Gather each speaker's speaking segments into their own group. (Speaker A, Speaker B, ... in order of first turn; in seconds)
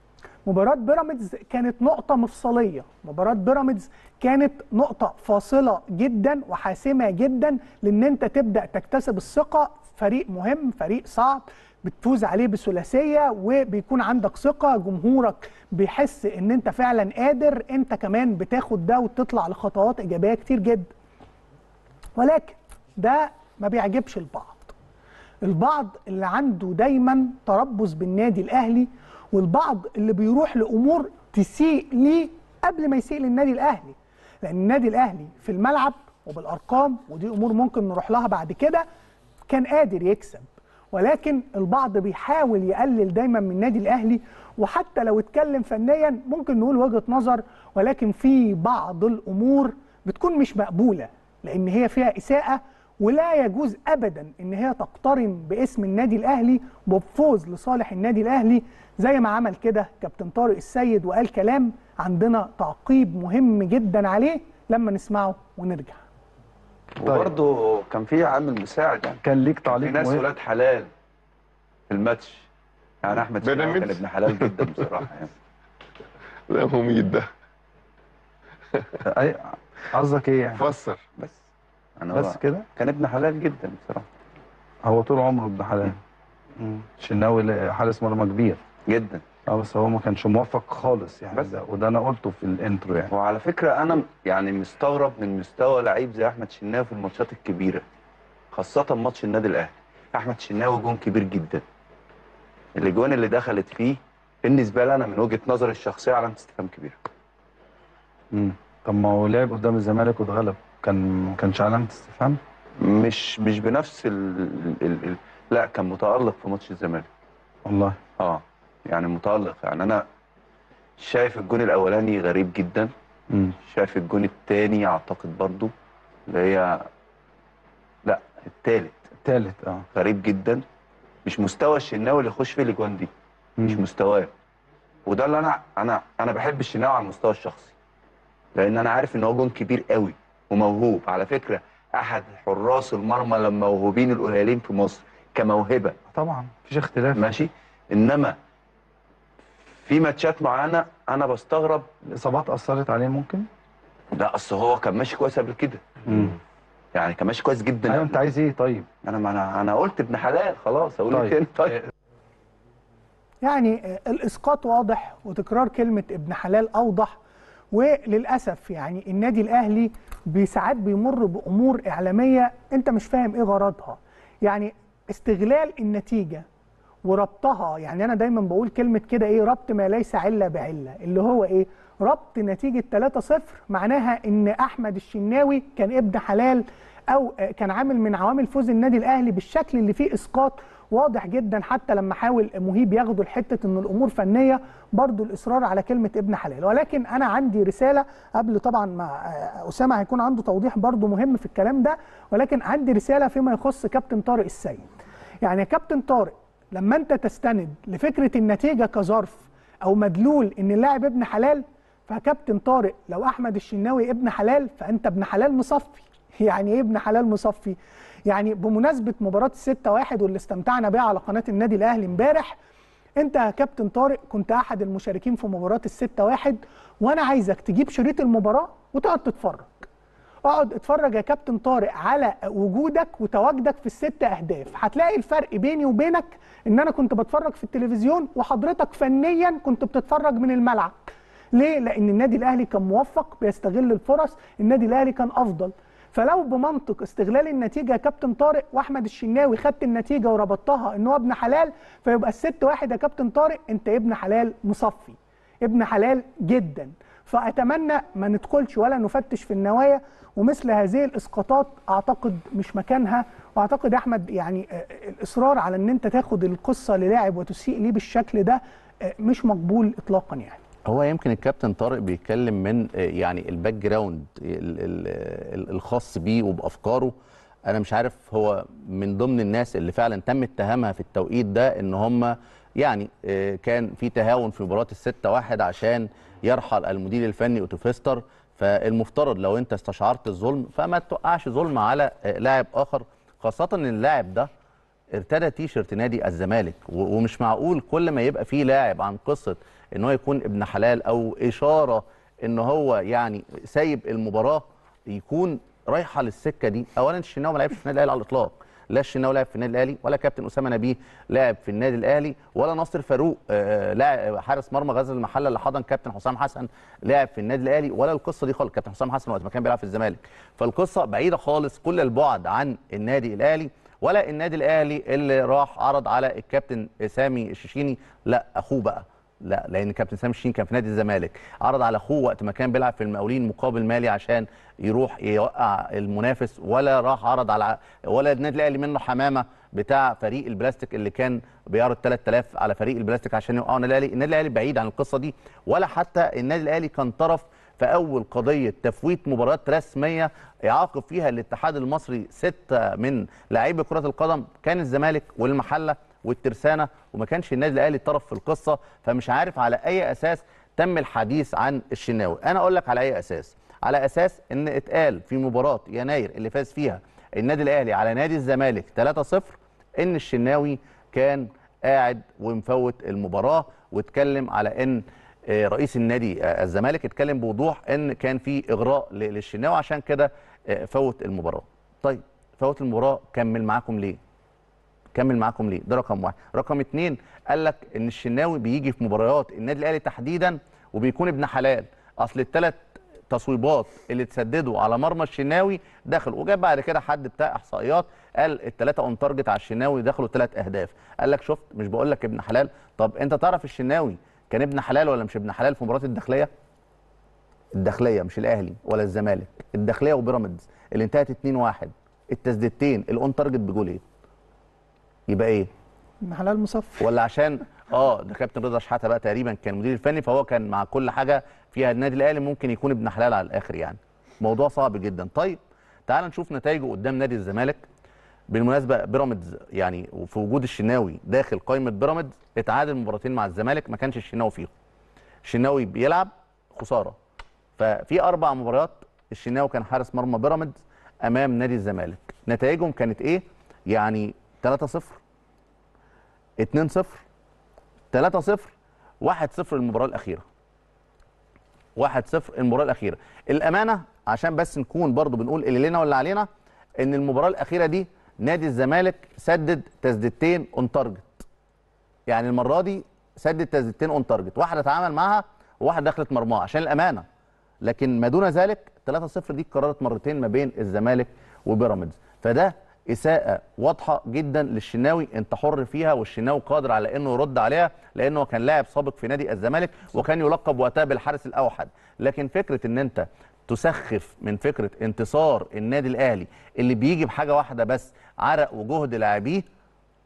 Speaker A: 0.4-20.9, 22.2-24.7, 25.4-38.8, 39.5-66.0, 163.4-167.2, 167.7-176.4, 177.0-204.8, 205.4-217.8, 218.3-222.6, 223.2-229.9, 230.4-240.9, 241.5-270.6, 416.2-417.1
Speaker B: 67.0-70.9, 71.9-72.5, 73.0-75.3, 82.0-84.0, 88.9-89.2, 93.1-97.8, 98.5-101.6, 102.8-107.0, 112.8-117.1, 118.2-120.0, 121.0-122.9, 123.6-125.7, 126.3-126.8, 128.0-129.0, 129.9-130.6, 131.2-133.1, 133.6-134.3, 135.1-137.7, 138.6-145.9, 147.1-148.3, 149.8-151.9, 154.1-156.0, 156.9-158.2, 159.0-161.8
Speaker C: 69.2-70.2, 79.2-80.5, 82.2-82.6, 84.9-86.0, 86.6-88.5, 89.5-93.0, 108.3-112.4, 117.7-117.9, 129.2-129.8, 146.1-147.3, 152.2-153.4, 156.1-156.3, 157.9-158.8
Speaker D: 73.3-75.0, 76.5-77.3, 78.8-79.1, 80.5-81.0
Speaker E: 270.9-277.1, 277.7-294.5, 295.1-384.2, 385.1-406.5, 407.7-414.0, 415.3-415.7, 417.0-427.8, 428.5-434.7, 435.4-437.1, 437.8-445.2, 446.6-447.2, 448.1-450.4, 452.0-456.5, 457.0-461.4, 462.3-467.2, 467.8-489.6